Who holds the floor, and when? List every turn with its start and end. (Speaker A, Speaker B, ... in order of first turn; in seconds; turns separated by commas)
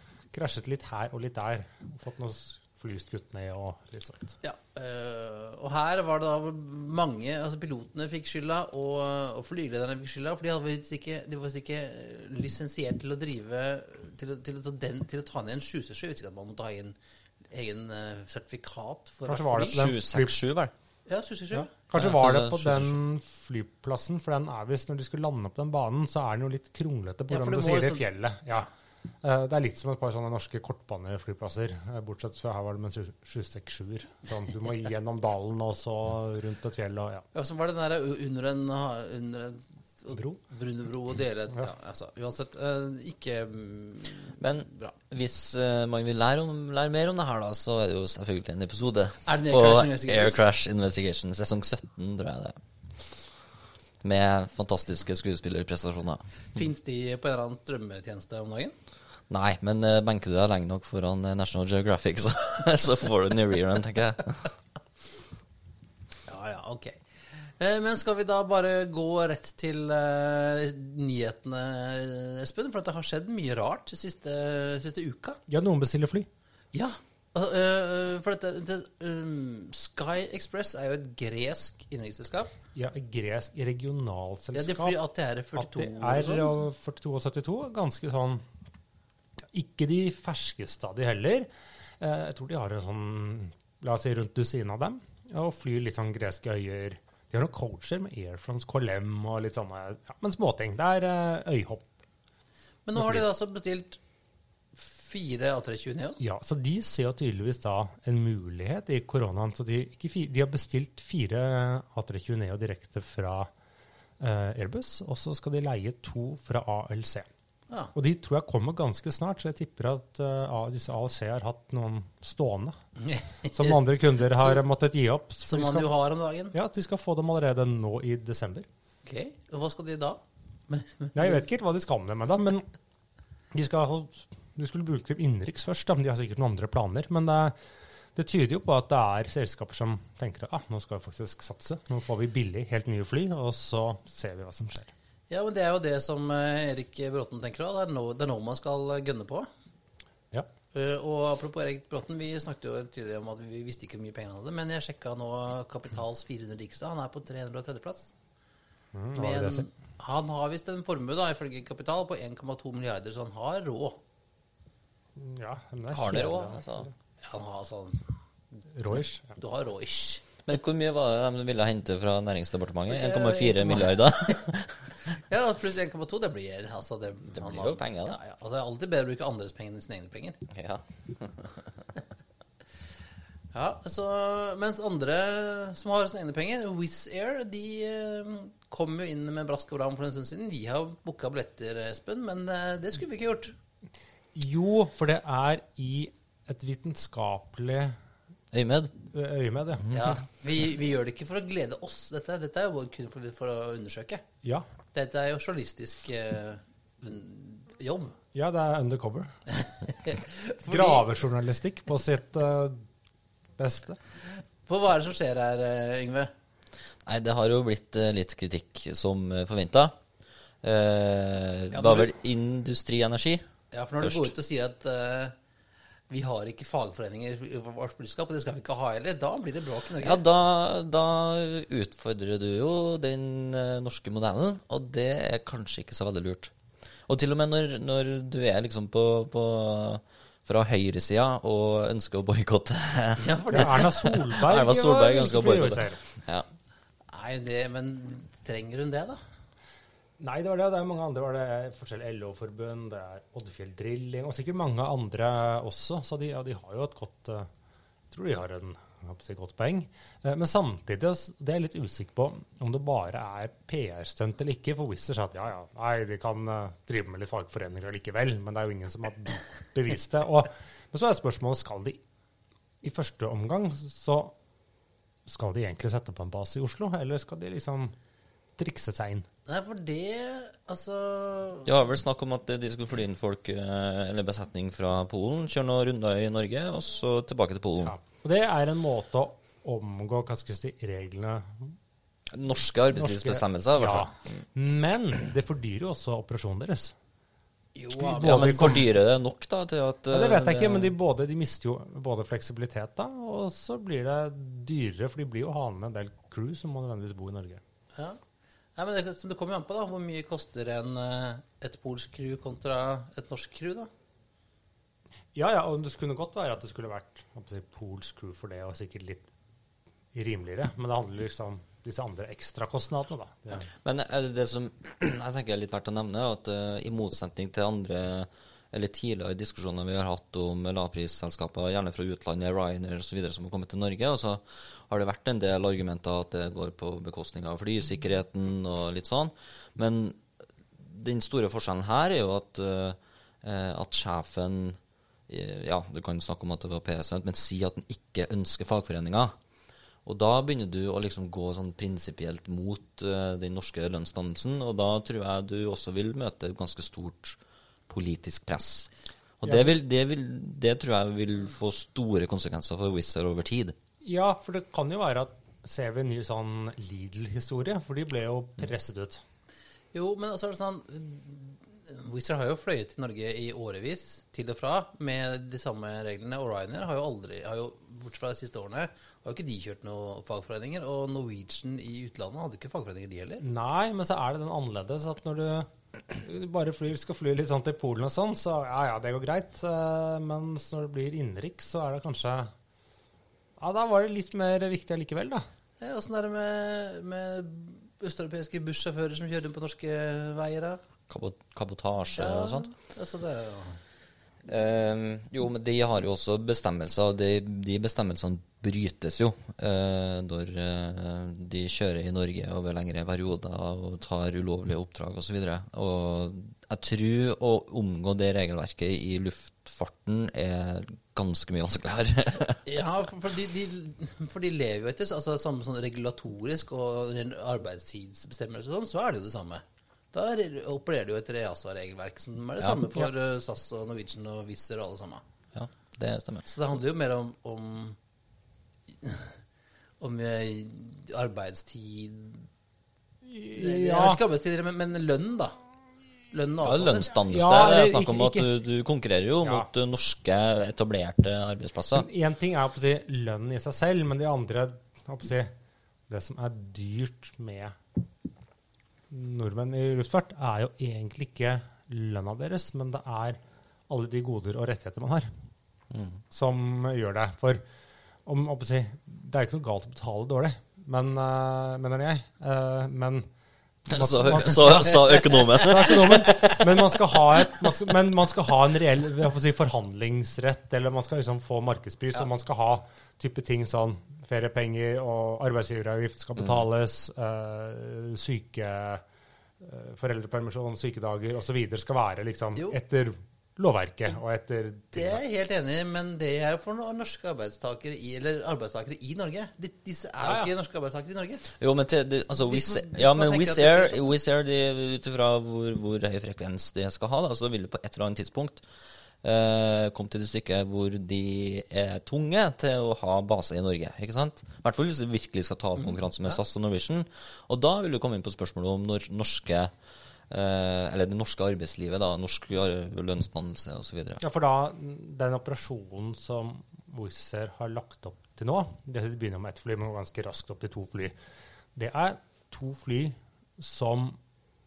Speaker A: 0.3-4.3, Speaker B: 4.4-16.9, Speaker B: 17.5-19.8, Speaker A: 19.2-20.3, Speaker C: 19.7-20.7, Speaker B: 21.1-21.7, Speaker A: 21.5-28.7, Speaker C: 21.9-23.0, Speaker B: 27.3-28.1, Speaker A: 29.2-37.2, Speaker B: 37.3-44.9, Speaker A: 40.1-40.4, Speaker C: 44.4-53.2, Speaker B: 49.2-50.4, Speaker C: 54.0-56.6, Speaker B: 56.5-58.8, Speaker C: 59.3-64.5, Speaker B: 66.3-67.0, Speaker B: 67.6-75.4, Speaker A: 75.5-76.3, Speaker B: 76.7-82.5, Speaker A: 82.7-85.0, Speaker B: 84.5-86.6, Speaker A: 85.5-88.4, Speaker A: 89.5-102.0, Speaker B: 102.8-104.0, Speaker A: 102.9-103.2, Speaker B: 104.8-106.2, Speaker A: 106.2-113.5, Speaker A: 114.2-117.3, Speaker A: 117.9-122.8, Speaker B: 123.0-123.8, Speaker A: 123.5-125.9, Speaker B: 125.4-126.5, Speaker A: 126.5-128.7, Speaker B: 129.0-131.5, Speaker A: 131.1-132.7, Speaker A: 133.5-137.6, Speaker A: 138.1-144.9, Speaker B: 145.3-149.5, Speaker B: 150.7-158.1, Speaker A: 158.9-159.7, Speaker B: 159.2-164.0, Speaker A: 165.2-166.9, Speaker C: 165.9-166.9, Speaker B: 167.2-168.1, Speaker A: 168.7-169.4, Speaker B: 168.9-170.2, Speaker C: 170.4-174.8, Speaker B: 172.9-174.4, Speaker B: 175.3-180.4, Speaker C: 177.3-178.2, Speaker C: 180.5-181.5, Speaker B: 183.5-193.5, Speaker A: 194.3-198.0, Speaker C: 198.5-198.9, Speaker A: 199.1-199.9, Speaker B: 199.9-204.2, Speaker B: 204.9-208.1, Speaker A: 208.3-209.3, Speaker B: 209.6-211.1, Speaker A: 210.7-212.8, Speaker A: 213.6-214.0, Speaker B: 214.7-216.3, Speaker C: 217.1-219.9, Speaker C: 220.6-223.5, Speaker B: 221.7-222.1, Speaker B: 223.7-225.3, Speaker C: 224.0-224.3, Speaker B: 226.1-230.2, Speaker C: 230.0-236.5, Speaker C: 237.1-246.5, Speaker B: 243.2-243.9, Speaker A: 243.5-246.0, Speaker B: 247.1-249.2, Speaker A: 250.2-257.5, Speaker A: 258.1-272.0, Speaker A: 272.8-274.3, Speaker A: 275.2-277.9, Speaker A: 278.6-279.3, Speaker B: 279.5-281.7, Speaker C: 281.6-287.9, Speaker A: 287.8-291.8, Speaker C: 292.3-294.3, Speaker A: 292.9-296.9, Speaker B: 297.7-298.8, Speaker A: 297.9-298.8, Speaker C: 298.2-300.9, Speaker A: 300.1-307.6, Speaker B: 308.8-313.9, Speaker A: 315.3-319.3, Speaker A: 320.1-323.7, Speaker C: 323.8-340.2, Speaker C: 340.8-349.3, Speaker C: 350.0-357.4, Speaker C: 357.9-363.7, Speaker A: 359.4-359.8, Speaker A: 364.0-369.2, Speaker B: 369.9-383.4, Speaker A: 383.4-392.5, Speaker A: 393.6-395.4, Speaker B: 395.8-400.8, Speaker C: 401.1-402.7, Speaker B: 402.1-403.8, Speaker C: 404.5-422.6, Speaker B: 422.6-435.2, Speaker C: 435.5-436.5, Speaker B: 436.4-438.0, Speaker B: 439.0-439.3, Speaker B: 440.0-442.5, Speaker A: 443.2-444.2, Speaker B: 443.5-445.6, Speaker B: 446.3-447.1, Speaker C: 446.6-452.1, Speaker A: 447.3-448.5, Speaker A: 449.4-449.7, Speaker A: 451.9-455.5, Speaker A: 456.1-457.8, Speaker A: 459.1-465.3, Speaker C: 465.9-466.2, Speaker A: 466.3-467.6, Speaker A: 468.2-473.3, Speaker C: 473.9-476.6, Speaker A: 473.9-489.0, Speaker A: 489.6-495.2, Speaker B: 494.9-501.4, Speaker A: 500.2-500.5, Speaker C: 501.6-508.6, Speaker B: 502.4-504.0, Speaker C: 509.2-519.7, Speaker B: 515.8-516.4, Speaker C: 520.3-524.2, Speaker A: 524.2-531.1, Speaker A: 531.7-534.2